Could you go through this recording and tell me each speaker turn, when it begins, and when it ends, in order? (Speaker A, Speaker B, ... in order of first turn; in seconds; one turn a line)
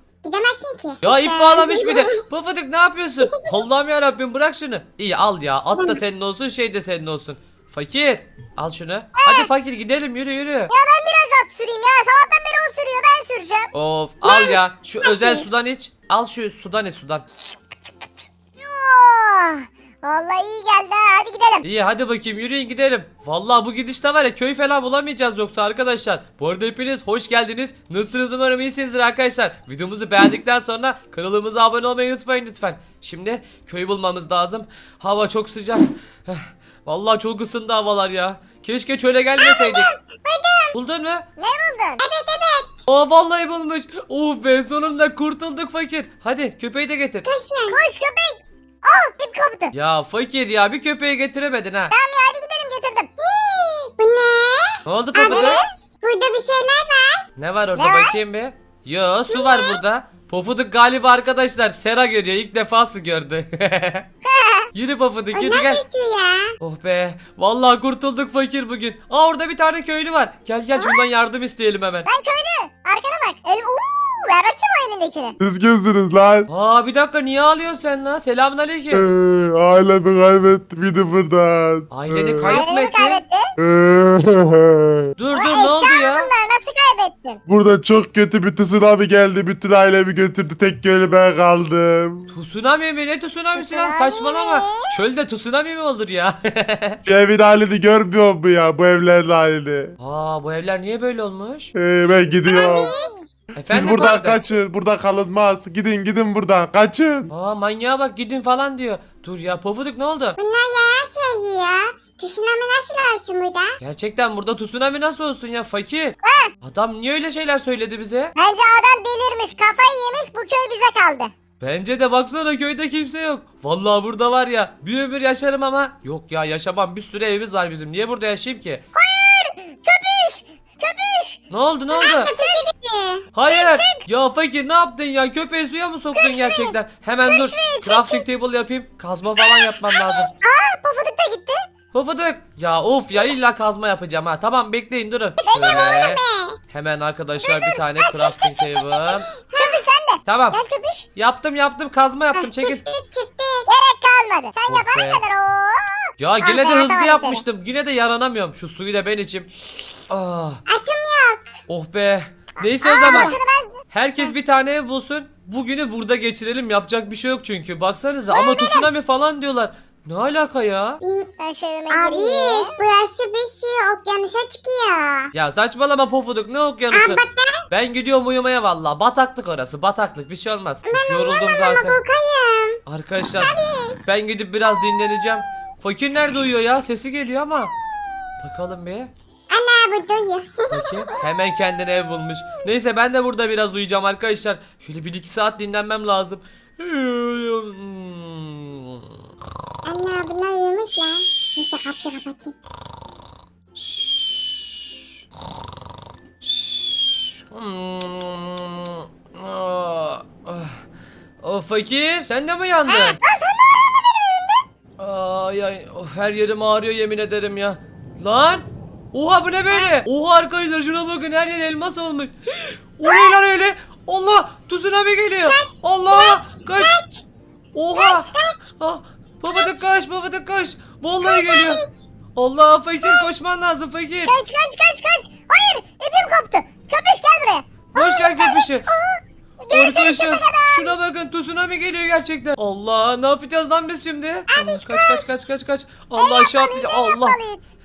Speaker A: 0.3-1.9
Speaker B: 1.0-10.7
Speaker C: 1.0-1.9
Speaker A: 9.2-9.5
Speaker A: 10.7-13.7
Speaker B: 13.7-17.2
Speaker A: 15.0-15.5
Speaker A: 18.6-21.6
Speaker B: 21.6-39.9
Speaker A: 39.4-40.7
Speaker B: 40.7-41.2
Speaker A: 41.4-42.6
Speaker C: 42.0-42.6
Speaker B: 42.9-47.3
Speaker C: 47.3-47.8
Speaker A: 47.7-49.7
Speaker B: 49.7-51.9
Speaker A: 51.9-53.1
Speaker C: 53.2-54.6
Speaker B: 54.9-55.6
Speaker C: 55.2-57.1
Speaker A: 55.2-55.8
Speaker B: 57.4-64.1
Speaker A: 57.8-58.1
Speaker A: 59.3-59.7
Speaker A: 64.2-64.7
Speaker B: 64.7-65.8
Speaker C: 65.3-65.8
Speaker A: 65.5-66.5
Speaker B: 66.6-72.1
Speaker A: 72.1-75.4
Speaker D: 75.4-76.5
Speaker B: 76.5-79.1
Speaker D: 78.9-82.6
Speaker B: 81.9-83.2
Speaker A: 82.5-83.5
Speaker D: 83.6-85.1
Speaker B: 85.2-86.3
Speaker A: 85.3-87.4
Speaker D: 87.5-92.3
Speaker B: 92.3-97.0
Speaker A: 93.5-94.9
Speaker D: 97.0-100.0
Speaker B: 100.0-101.7
Speaker D: 101.8-102.9
Speaker C: 102.5-103.2
Speaker A: 102.6-103.1
Speaker B: 103.6-104.4
Speaker D: 103.7-107.3
Speaker B: 107.3-110.4
Speaker A: 110.5-113.4
Speaker C: 113.0-113.4
Speaker B: 113.8-118.3
Speaker A: 116.2-116.5
Speaker A: 118.4-121.3
Speaker B: 121.6-128.8
Speaker A: 128.9-131.4
Speaker B: 131.5-132.3
Speaker C: 131.9-133.0
Speaker A: 132.2-132.7
Speaker B: 133.3-140.3
Speaker A: 133.4-134.0
Speaker A: 136.2-136.7
Speaker A: 137.2-138.2
Speaker A: 140.4-141.7
Speaker B: 141.9-149.3
Speaker A: 145.4-146.6
Speaker C: 147.9-149.8
Speaker A: 149.6-151.1
Speaker B: 150.3-150.6
Speaker B: 151.2-152.8
Speaker C: 152.4-153.7
Speaker A: 153.7-157.4
Speaker B: 154.7-155.2
Speaker B: 156.2-159.5
Speaker B: 160.1-160.6
Speaker C: 160.7-161.4
Speaker B: 161.7-163.3
Speaker A: 162.9-163.8
Speaker C: 163.0-163.4
Speaker B: 163.9-171.0
Speaker A: 168.4-168.8
Speaker A: 171.0-172.8
Speaker C: 171.9-175.2
Speaker B: 175.3-182.0
Speaker C: 176.9-177.6
Speaker C: 180.9-182.1
Speaker A: 182.3-182.8
Speaker B: 182.9-187.7
Speaker A: 183.5-184.0
Speaker B: 188.4-189.1
Speaker A: 189.5-190.6
Speaker B: 190.7-199.0
Speaker A: 199.9-202.5
Speaker B: 203.8-204.8
Speaker B: 206.4-210.8
Speaker B: 211.4-213.2
Speaker A: 212.9-214.6
Speaker B: 215.0-227.0
Speaker A: 225.5-227.2
Speaker B: 227.7-234.3
Speaker A: 227.9-228.6
Speaker A: 231.2-231.9
Speaker A: 234.3-240.9
Speaker B: 237.9-238.9
Speaker B: 239.7-247.4
Speaker A: 244.5-245.2
Speaker A: 246.2-247.7